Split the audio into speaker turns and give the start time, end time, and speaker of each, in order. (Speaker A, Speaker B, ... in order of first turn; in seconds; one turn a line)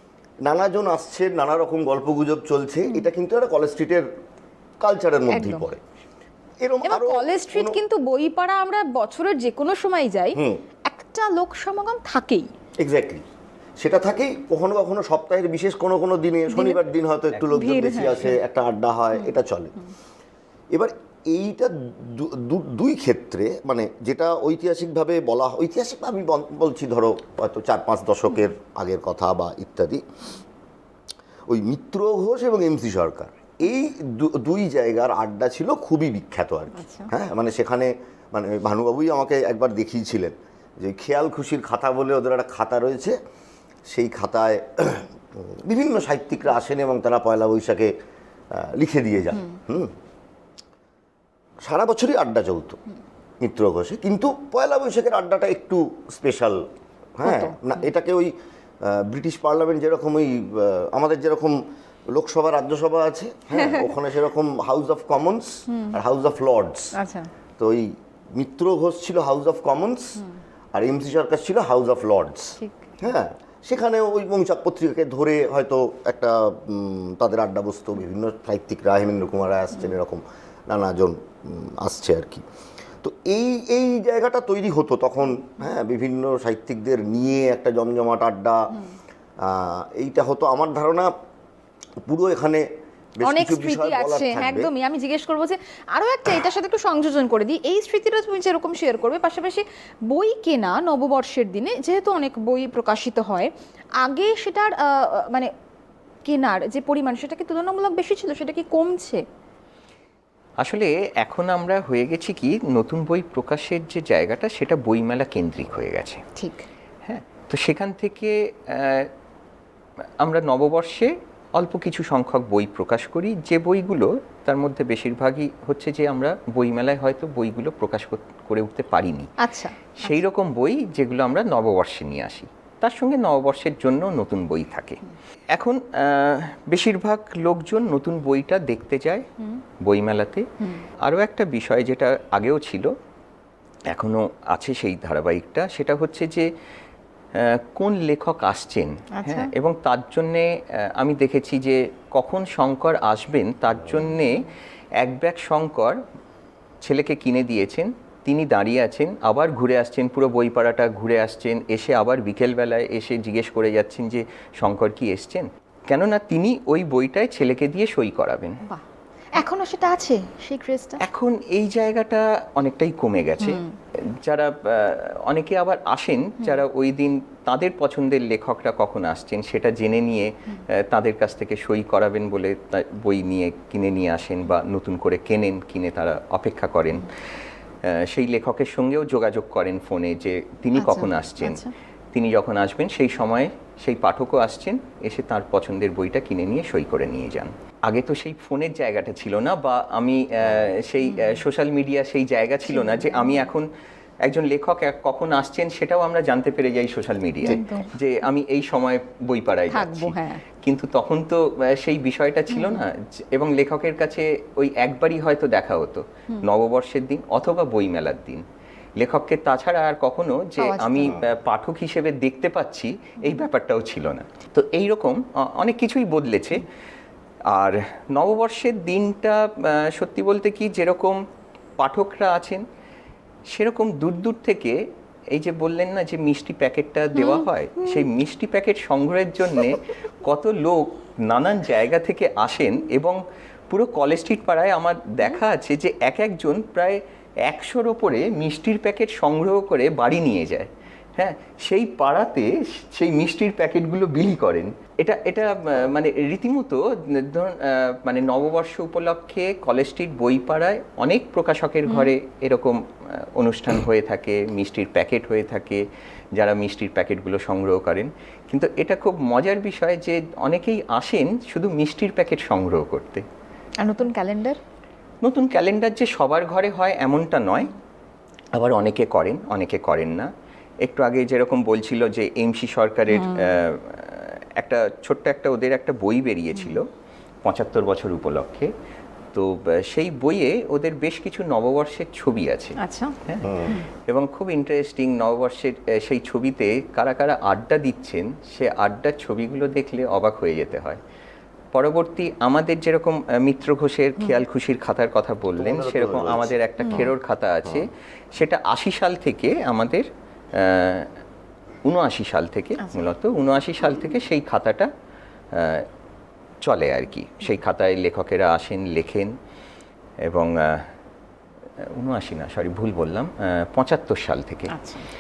Speaker A: 0.4-4.1
Speaker A: 4.8-5.8
Speaker B: 5.3-5.7
Speaker A: 6.6-7.8
Speaker B: 6.8-12.5
Speaker A: 10.3-10.6
Speaker A: 12.8-13.2
Speaker A: 13.8-19.7
Speaker B: 16.5-16.8
Speaker C: 17.3-18.1
Speaker B: 17.5-18.4
Speaker A: 20.7-30.0
Speaker A: 31.5-43.2
Speaker B: 36.8-37.1
Speaker A: 43.9-47.9
Speaker A: 48.5-49.9
Speaker A: 51.6-52.8
Speaker A: 53.4-56.6
Speaker A: 57.2-66.9
Speaker B: 57.2-57.7
Speaker B: 63.5-63.8
Speaker B: 65.7-66.0
Speaker B: 66.9-67.3
Speaker A: 67.6-70.2
Speaker A: 70.7-82.4
Speaker B: 72.6-72.9
Speaker A: 83.0-88.8
Speaker A: 89.4-91.1
Speaker A: 92.0-92.7
Speaker A: 93.2-94.7
Speaker B: 93.2-105.5
Speaker B: 106.2-109.2
Speaker C: 110.6-116.2
Speaker B: 116.4-116.6
Speaker C: 117.0-119.1
Speaker C: 120.2-129.3
Speaker B: 129.4-130.2
Speaker C: 130.0-135.0
Speaker C: 135.5-139.3
Speaker C: 139.8-140.5
Speaker C: 141.0-142.9
Speaker C: 143.9-146.5
Speaker C: 147.3-154.5
Speaker B: 149.1-149.5
Speaker C: 155.0-156.0
Speaker C: 156.8-168.6
Speaker B: 169.3-171.0
Speaker C: 171.0-187.1
Speaker B: 173.4-173.8
Speaker C: 187.8-203.7
Speaker B: 190.8-191.7
Speaker B: 201.0-201.4
Speaker B: 202.7-203.5
Speaker C: 204.2-218.4
Speaker B: 207.4-207.9
Speaker B: 209.7-210.4
Speaker B: 212.5-212.8
Speaker C: 219.0-226.7
Speaker B: 220.6-221.2
Speaker C: 227.5-231.2
Speaker C: 231.8-232.6
Speaker C: 233.5-273.2
Speaker B: 237.1-238.0
Speaker B: 261.9-262.1
Speaker B: 273.8-274.6
Speaker C: 275.2-277.7
Speaker C: 278.5-280.3
Speaker C: 280.8-286.9
Speaker B: 283.1-283.6
Speaker B: 286.5-286.8
Speaker C: 287.4-288.7
Speaker C: 289.3-301.0
Speaker B: 292.8-293.9
Speaker A: 293.4-293.8
Speaker C: 301.7-311.1
Speaker A: 305.6-307.1
Speaker B: 306.8-307.1
Speaker C: 311.9-314.9
Speaker B: 312.8-313.1
Speaker C: 315.5-315.9
Speaker C: 316.6-319.3
Speaker C: 320.2-320.9
Speaker C: 321.8-324.7
Speaker B: 324.7-325.1